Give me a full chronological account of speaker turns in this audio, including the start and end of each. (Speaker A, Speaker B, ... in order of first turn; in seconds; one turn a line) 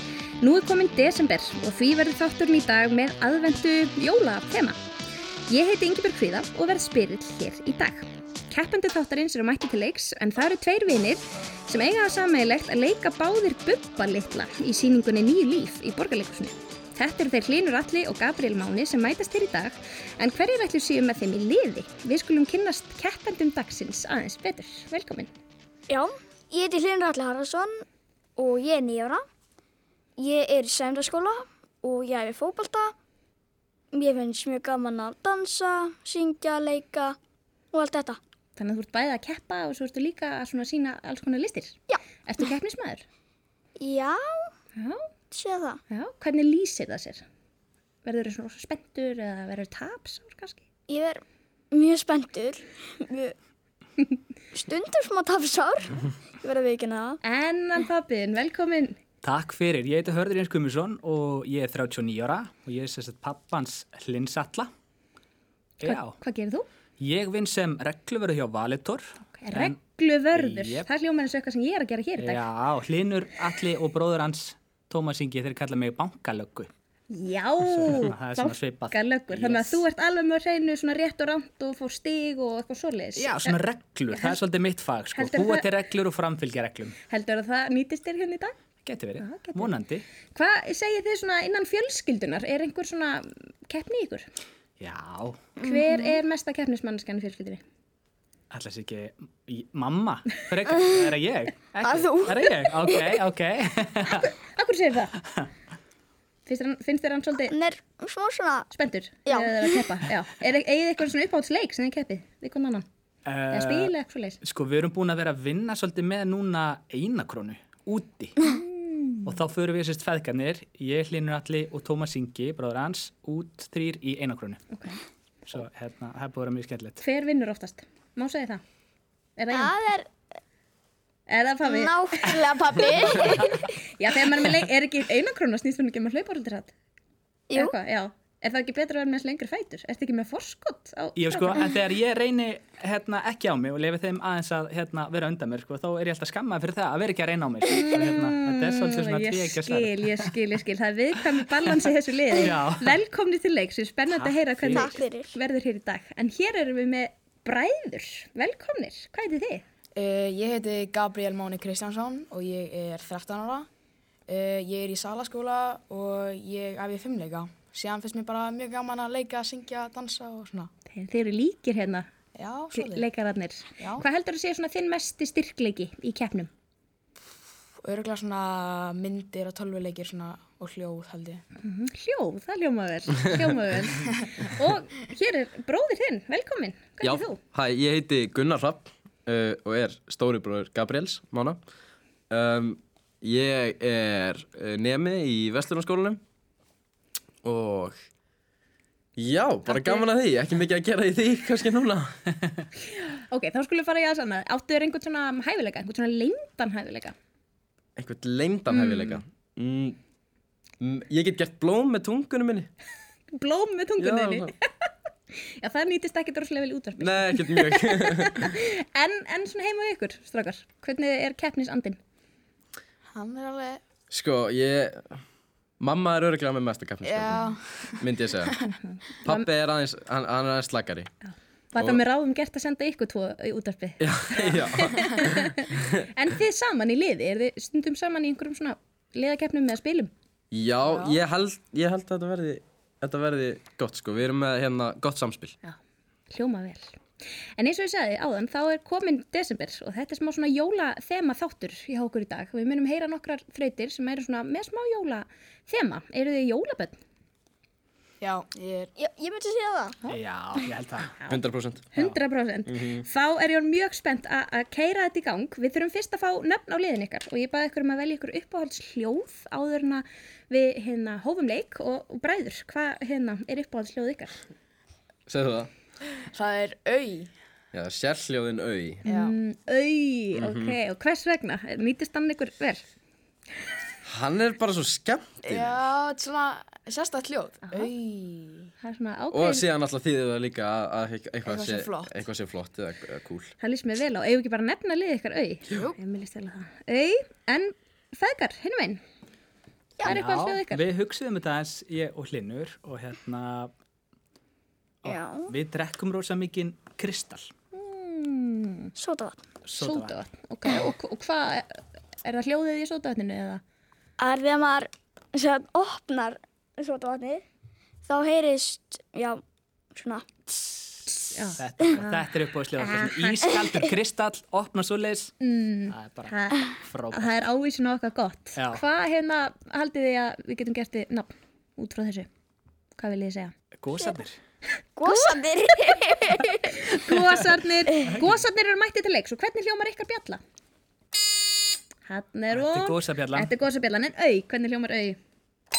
Speaker A: 0.4-4.8
Speaker A: 5.5-25.3
Speaker B: 25.9-27.7
Speaker B: 28.4-29.2
Speaker B: 30.2-32.9
Speaker B: 34.0-37.1
Speaker B: 37.7-38.2
Speaker A: 38.5-43.0
Speaker B: 43.8-44.2
Speaker A: 44.8-45.0
Speaker B: 45.3-45.8
Speaker A: 45.9-47.2
Speaker A: 48.0-50.6
Speaker B: 50.9-51.2
Speaker B: 51.7-53.3
Speaker B: 54.5-57.2
Speaker A: 57.2-59.0
Speaker C: 59.2-64.7
Speaker C: 65.8-66.2
Speaker A: 65.8-66.7
Speaker C: 67.0-69.8
Speaker A: 69.3-72.4
Speaker C: 70.3-70.9
Speaker C: 72.2-76.7
Speaker A: 77.1-84.4
Speaker C: 77.6-79.8
Speaker C: 83.2-86.9
Speaker A: 85.1-85.7
Speaker A: 87.1-88.6
Speaker C: 88.8-90.0
Speaker A: 89.2-89.7
Speaker A: 90.3-94.2
Speaker C: 94.8-95.4
Speaker A: 95.6-97.6
Speaker C: 98.5-104.3
Speaker B: 101.8-102.9
Speaker A: 104.1-105.1
Speaker A: 106.5-107.5
Speaker B: 107.5-108.7
Speaker A: 108.7-112.8
Speaker B: 109.2-109.8
Speaker C: 113.2-118.4
Speaker A: 113.5-114.4
Speaker A: 118.4-119.3
Speaker C: 119.2-124.6
Speaker A: 124.7-125.0
Speaker C: 125.5-127.0
Speaker A: 127.0-128.6
Speaker A: 129.4-129.8
Speaker B: 129.5-130.0
Speaker A: 131.3-136.7
Speaker B: 131.7-133.6
Speaker A: 137.5-141.7
Speaker C: 141.2-150.3
Speaker A: 147.7-159.6
Speaker C: 152.3-153.0
Speaker C: 154.1-155.0
Speaker B: 154.7-155.2
Speaker D: 159.9-163.7
Speaker D: 164.3-170.7
Speaker A: 170.9-172.1
Speaker D: 172.3-173.1
Speaker A: 172.7-176.5
Speaker D: 173.8-174.0
Speaker D: 177.8-181.4
Speaker A: 181.6-187.4
Speaker E: 187.0-191.6
Speaker E: 192.3-196.2
Speaker E: 197.4-198.0
Speaker E: 199.2-202.1
Speaker A: 199.7-200.0
Speaker A: 202.9-207.1
Speaker E: 208.0-210.0
Speaker A: 208.7-209.2
Speaker E: 210.8-212.7
Speaker A: 213.3-214.5
Speaker E: 214.0-214.5
Speaker A: 215.6-222.0
Speaker E: 217.0-218.5
Speaker D: 223.1-223.8
Speaker E: 224.1-225.1
Speaker E: 225.8-228.6
Speaker D: 227.0-228.0
Speaker A: 228.8-229.5
Speaker E: 229.2-231.1
Speaker A: 231.2-240.1
Speaker E: 231.8-232.0
Speaker E: 234.0-235.9
Speaker E: 240.5-245.6
Speaker D: 240.8-241.2
Speaker A: 246.3-247.0
Speaker A: 247.6-257.0
Speaker D: 258.2-258.9
Speaker B: 259.0-259.9
Speaker C: 260.1-261.1
Speaker A: 261.2-274.3
Speaker E: 261.3-261.9
Speaker E: 262.7-263.1
Speaker E: 275.3-275.7
Speaker D: 276.3-277.3
Speaker E: 277.7-279.0
Speaker A: 279.0-282.8
Speaker D: 279.1-279.3
Speaker E: 280.3-280.8
Speaker E: 284.1-285.8
Speaker D: 285.4-288.7
Speaker A: 288.8-289.6
Speaker E: 289.3-293.5
Speaker D: 291.4-292.1
Speaker A: 293.6-299.0
Speaker D: 295.7-296.0
Speaker A: 300.0-300.8
Speaker C: 300.0-303.7
Speaker C: 305.0-307.5
Speaker B: 305.0-305.4
Speaker A: 307.7-308.9
Speaker B: 309.0-309.4
Speaker C: 309.6-310.1
Speaker A: 309.7-313.6
Speaker B: 314.2-317.4
Speaker B: 318.1-319.4
Speaker B: 319.9-320.2
Speaker A: 321.1-322.2
Speaker C: 321.6-325.3
Speaker A: 322.8-323.1
Speaker A: 325.4-332.3
Speaker C: 325.9-327.4
Speaker C: 328.6-328.8
Speaker A: 333.0-333.5
Speaker C: 333.8-334.4
Speaker B: 335.0-336.6
Speaker A: 335.1-335.4
Speaker A: 336.7-340.4
Speaker A: 342.0-345.2
Speaker C: 342.5-343.5